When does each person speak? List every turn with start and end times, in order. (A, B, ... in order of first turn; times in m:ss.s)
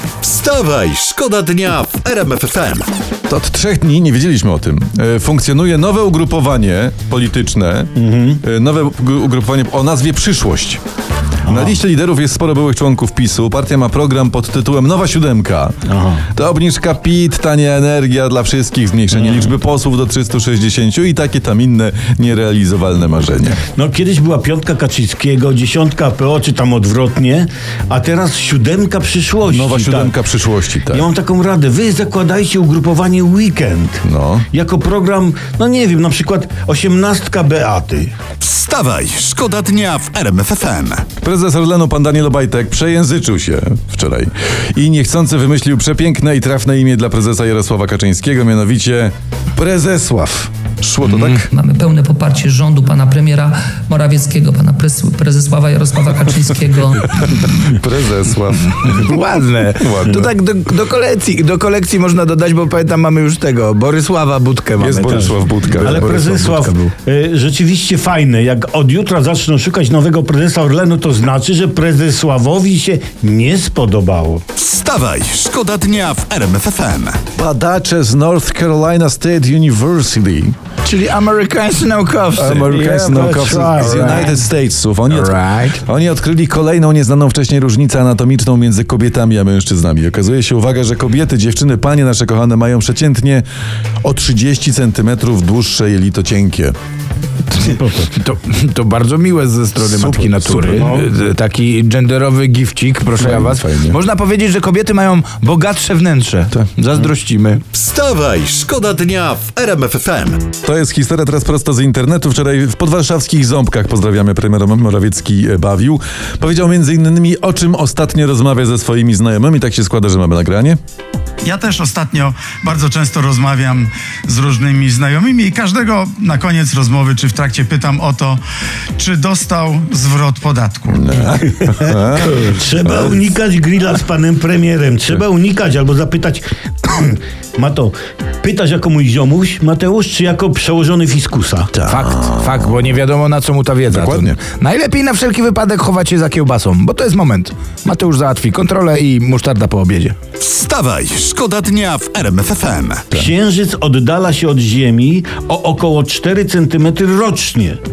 0:00.2-0:02.8 A
0:03.3-0:10.8 B
0:08.0-0:08.4 C
0:11.5-0:11.8 C
0:11.5-0:15.8 B
0:15.9-0:16.2 C
0:16.3-0:23.6 B
0:19.2-0:19.5 C
0:23.7-0:30.1 C
0:29.5-0:31.0 B
0:30.9-0:38.1 C
0:34.0-0:34.4 B
0:38.4-0:41.1 A
0:41.2-0:51.5 B
0:51.0-0:51.4 D
0:51.5-0:57.2 E
0:57.1-0:59.2 B
0:58.7-1:06.9 D
0:59.8-1:00.3 B
1:04.8-1:06.4 B
1:05.1-1:14.4 C
1:14.5-1:17.2 A
1:17.4-1:20.5 B
1:20.8-1:24.3 D
1:22.4-1:33.4 B
1:22.7-1:24.3 C
1:25.1-1:25.8 D
1:34.0-1:36.7 B
1:37.5-1:47.6 D
1:37.6-1:38.1 C
1:39.8-1:41.0 B
1:43.2-1:44.0 B
1:47.7-1:50.4 A
1:50.6-2:00.8 B
2:01.4-2:08.4 F
2:09.0-2:11.1 F
2:10.9-2:13.2 B
2:11.6-2:21.8 C
2:21.8-2:22.6 B
2:21.8-2:30.2 D
2:23.9-2:24.4 B
2:30.4-2:33.1 A
2:33.1-2:37.8 C